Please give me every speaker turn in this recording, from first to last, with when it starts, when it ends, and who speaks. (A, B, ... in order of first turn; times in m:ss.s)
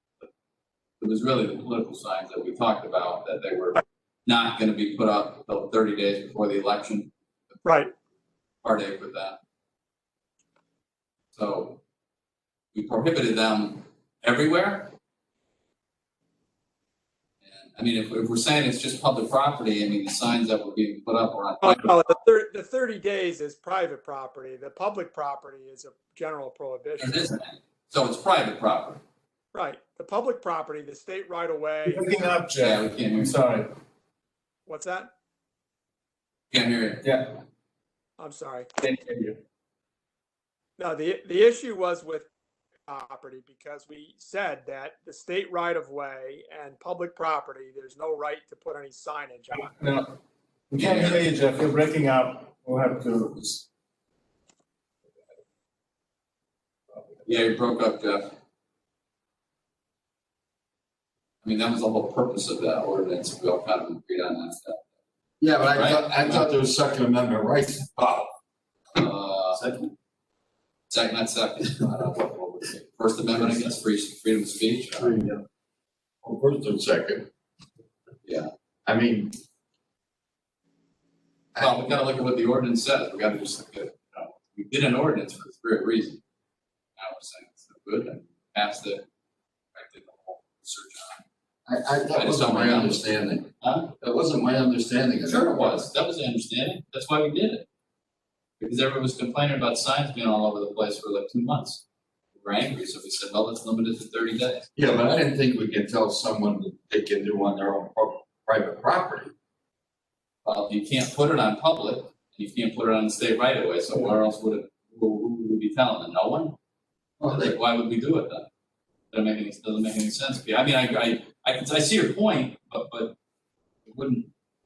0:01.0-0:07.9 A
0:07.6-0:07.9 B
0:08.6-0:09.4 A
0:11.3-0:11.8 A
0:12.7-0:14.9 A
0:17.4-0:22.0 A
0:21.6-0:27.2 B
0:27.0-0:29.0 A
0:29.5-0:32.3 B
0:31.8-0:33.7 C
0:32.6-0:33.4 A
0:34.7-0:35.1 B
0:36.5-0:37.1 A
0:37.0-0:37.4 C
0:38.2-0:38.7 B
0:38.8-0:39.4 C
0:40.8-0:42.3 B
0:42.9-0:49.7 B
0:49.5-0:50.1 C
0:50.7-0:53.6 C
0:50.8-0:51.2 A
0:56.9-0:57.2 C
0:57.3-0:58.3 A
1:01.4-1:04.8 A
1:05.4-1:08.3 D
1:05.7-1:06.6 A
1:09.0-1:09.6 A
1:09.5-1:09.9 D
1:10.9-1:15.2 A
1:15.0-1:15.4 D
1:16.2-1:17.3 D
1:18.2-1:18.5 A
1:18.9-1:19.4 D
1:21.6-1:21.8 D
1:21.6-1:26.2 A
1:27.0-1:29.0 A
1:29.7-1:31.2 A
1:31.7-1:33.5 D
1:32.1-1:33.9 A
1:34.0-1:35.8 D
1:35.2-1:37.7 A
1:38.6-1:41.8 A
1:42.4-1:44.7 A
1:44.8-1:49.3 D
1:50.4-1:56.6 A
1:57.2-1:57.6 D
1:57.3-1:58.5 A
1:59.1-2:03.1 A
2:03.9-2:04.3 A